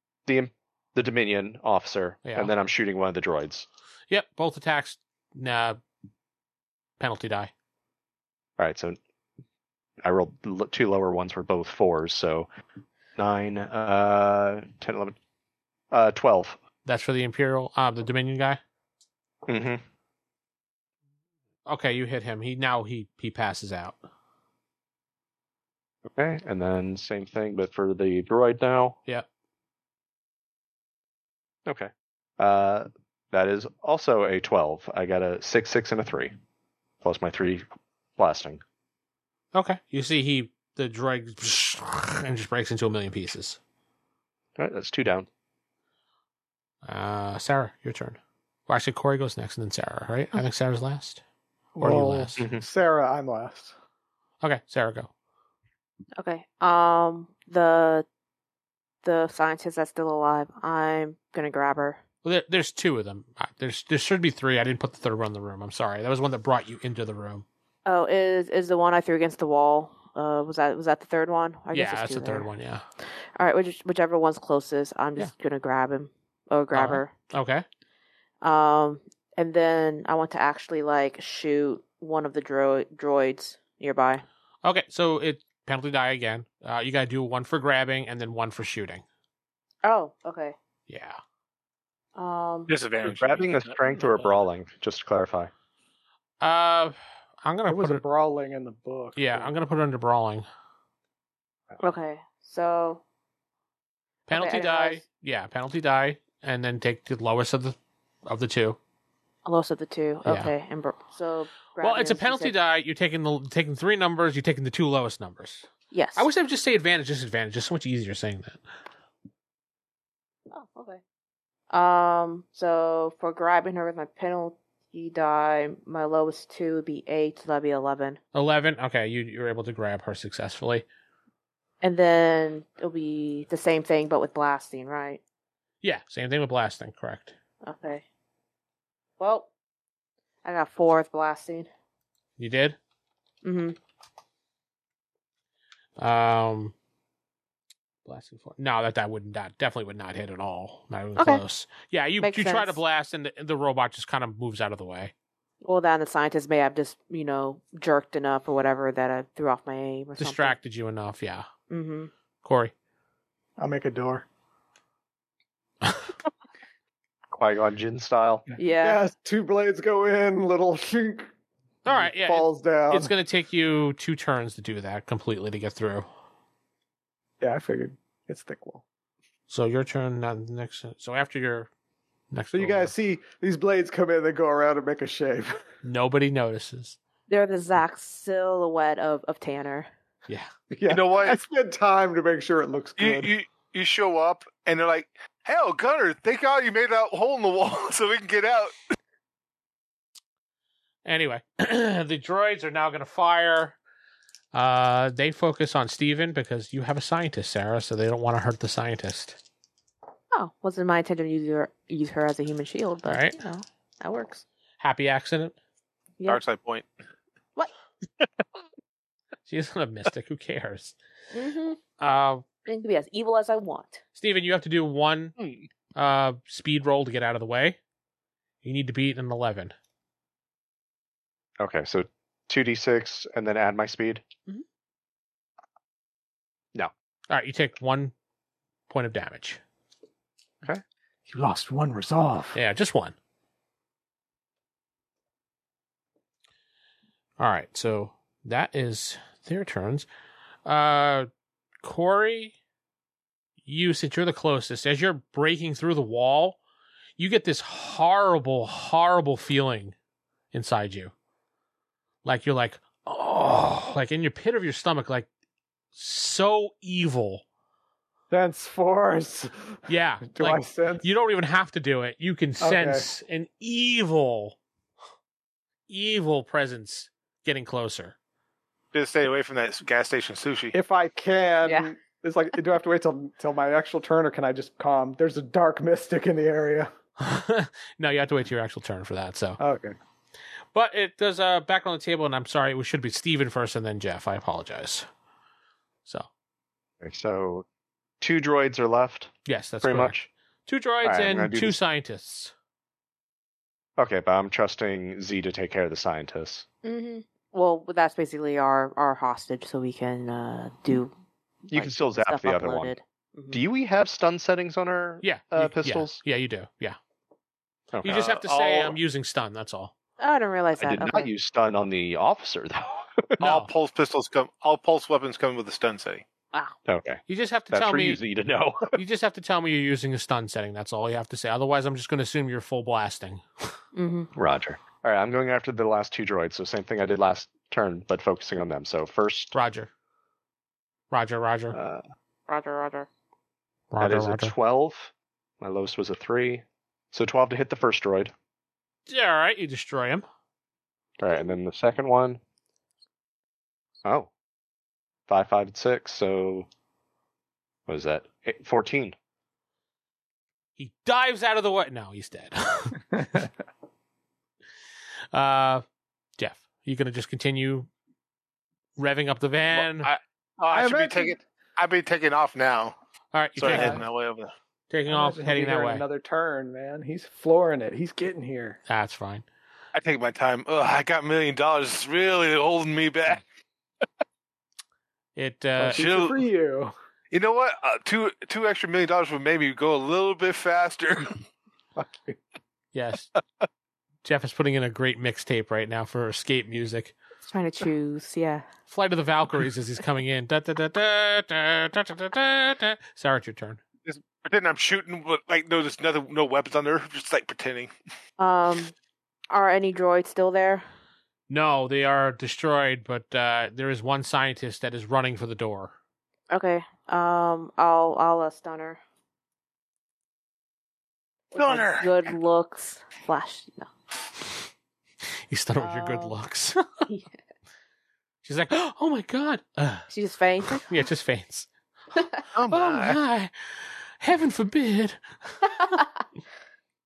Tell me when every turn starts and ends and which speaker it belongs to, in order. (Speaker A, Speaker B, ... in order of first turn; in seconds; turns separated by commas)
Speaker A: 0.2-3.7, Speaker B: 2.2-2.5, Speaker B: 4.1-5.8, Speaker B: 7.0-7.5, Speaker A: 8.6-9.0, Speaker A: 10.0-12.5, Speaker A: 13.2-15.2, Speaker A: 15.9-16.6, Speaker B: 16.9-18.6, Speaker A: 19.5-19.8, Speaker B: 21.7-24.0, Speaker A: 26.1-29.0, Speaker A: 31.6-36.3, Speaker A: 37.0-37.6, Speaker A: 38.2-38.6, Speaker B: 39.5-43.6, Speaker A: 44.6-45.3, Speaker B: 46.8-51.2, Speaker C: 51.8-53.7, Speaker B: 51.8-52.4, Speaker A: 52.4-52.6, Speaker B: 54.4-55.1, Speaker D: 56.2-58.0, Speaker D: 59.0-62.0, Speaker B: 62.2-67.4, Speaker D: 67.8-72.5, Speaker B: 71.7-72.8, Speaker D: 73.3-77.1, Speaker B: 76.7-77.6, Speaker D: 78.4-84.2, Speaker B: 84.6-89.0, Speaker D: 89.8-90.5, Speaker B: 90.9-91.2, Speaker D: 92.2-92.7, Speaker E: 92.7-94.3, Speaker A: 93.0-95.5, Speaker B: 96.4-98.0, Speaker C: 97.7-99.5, Speaker B: 99.2-100.5, Speaker D: 101.8-103.0, Speaker B: 104.3-108.8, Speaker D: 104.3-105.0, Speaker D: 109.4-112.5, Speaker B: 110.2-110.5, Speaker B: 111.8-118.6, Speaker D: 115.9-116.3, Speaker D: 120.5-121.0, Speaker D: 121.7-128.2, Speaker B: 128.3-130.8, Speaker D: 131.8-135.2, Speaker B: 135.8-137.3, Speaker D: 137.6-138.0, Speaker D: 139.2-139.5, Speaker D: 140.4-141.7, Speaker B: 142.4-142.8, Speaker D: 143.4-143.8, Speaker B: 146.0-146.7, Speaker B: 148.1-155.1, Speaker D: 151.2-151.4, Speaker D: 152.2-152.8, Speaker D: 155.6-160.5, Speaker B: 160.2-161.5, Speaker D: 161.7-162.1, Speaker B: 162.4-162.7, Speaker C: 163.6-164.2, Speaker A: 167.3-168.4, Speaker D: 168.6-169.0, Speaker C: 168.8-171.3, Speaker B: 171.8-176.1, Speaker C: 171.9-173.1, Speaker C: 177.4-178.8, Speaker B: 179.5-181.7, Speaker B: 182.3-182.9, Speaker C: 182.5-185.6, Speaker B: 185.8-187.0, Speaker D: 187.3-189.9, Speaker C: 190.7-193.3, Speaker E: 190.9-191.4, Speaker E: 193.0-198.8, Speaker B: 201.0-203.8, Speaker B: 204.5-209.4, Speaker D: 210.3-214.4, Speaker B: 213.1-213.4, Speaker B: 214.8-215.6, Speaker E: 216.2-216.9, Speaker B: 219.4-220.9, Speaker D: 221.3-221.8, Speaker B: 222.0-222.4, Speaker D: 222.6-224.0, Speaker B: 224.1-225.3, Speaker E: 225.4-225.7, Speaker B: 225.9-227.8, Speaker B: 228.6-229.7, Speaker A: 231.6-234.2, Speaker B: 237.3-238.1, Speaker B: 238.9-239.6, Speaker C: 241.3-242.6, Speaker B: 242.5-243.2, Speaker B: 247.4-250.1, Speaker B: 250.6-251.3, Speaker B: 251.8-252.5, Speaker B: 253.6-256.6, Speaker B: 257.2-259.9, Speaker B: 260.5-261.1, Speaker B: 262.2-265.3, Speaker B: 265.9-267.4, Speaker C: 268.3-269.5, Speaker B: 269.9-274.6, Speaker C: 270.3-271.1, Speaker C: 272.6-273.1, Speaker B: 275.9-278.1, Speaker E: 278.9-280.7, Speaker C: 280.7-286.9, Speaker D: 281.6-281.9, Speaker B: 287.2-289.6, Speaker C: 289.6-289.9, Speaker B: 290.7-295.1, Speaker A: 297.0-297.6, Speaker A: 298.2-300.3, Speaker B: 299.4-300.1, Speaker B: 300.6-302.5, Speaker A: 301.0-301.8, Speaker A: 304.0-306.6, Speaker D: 306.8-311.1, Speaker D: 311.7-313.6, Speaker A: 311.7-312.9, Speaker A: 313.5-316.2, Speaker B: 315.2-317.0, Speaker A: 317.9-318.4, Speaker B: 318.0-319.9, Speaker E: 318.3-318.9, Speaker D: 320.2-321.3, Speaker A: 320.8-323.3, Speaker E: 323.4-326.2, Speaker B: 323.4-323.7, Speaker A: 326.9-329.0, Speaker B: 327.3-328.2, Speaker B: 328.9-333.4, Speaker D: 333.9-334.3, Speaker A: 334.3-339.5, Speaker B: 339.5-339.9, Speaker B: 341.1-341.8, Speaker A: 341.7-342.0, Speaker D: 342.5-343.1, Speaker B: 343.9-344.5, Speaker A: 344.0-348.3, Speaker B: 349.1-350.2, Speaker A: 351.2-352.4, Speaker A: 354.0-354.3, Speaker A: 355.3-356.7, Speaker A: 357.9-359.1, Speaker B: 360.8-363.4, Speaker B: 365.3-365.8, Speaker B: 366.4-367.9, Speaker B: 369.0-370.1, Speaker E: 369.7-372.9, Speaker C: 370.7-371.4, Speaker B: 373.3-374.0, Speaker E: 373.6-374.5, Speaker C: 373.7-374.0, Speaker B: 374.9-376.0, Speaker C: 375.1-378.8, Speaker B: 378.9-379.4, Speaker E: 379.9-383.4, Speaker B: 385.4-386.1, Speaker C: 385.8-386.9, Speaker E: 385.9-386.4, Speaker E: 387.3-391.4, Speaker C: 392.0-392.4, Speaker B: 392.9-393.3, Speaker B: 394.2-397.1, Speaker D: 397.4-398.6, Speaker B: 398.9-403.8, Speaker E: 404.1-407.9, Speaker D: 408.4-408.9, Speaker D: 409.5-410.8, Speaker B: 411.5-415.9, Speaker D: 416.5-419.0, Speaker D: 421.5-423.9, Speaker E: 421.6-422.2, Speaker B: 425.5-426.8, Speaker D: 425.8-426.3, Speaker B: 428.4-430.1, Speaker D: 430.1-430.9, Speaker B: 430.7-431.7, Speaker D: 432.1-432.4, Speaker E: 432.5-433.2, Speaker B: 432.7-435.7, Speaker D: 435.6-436.2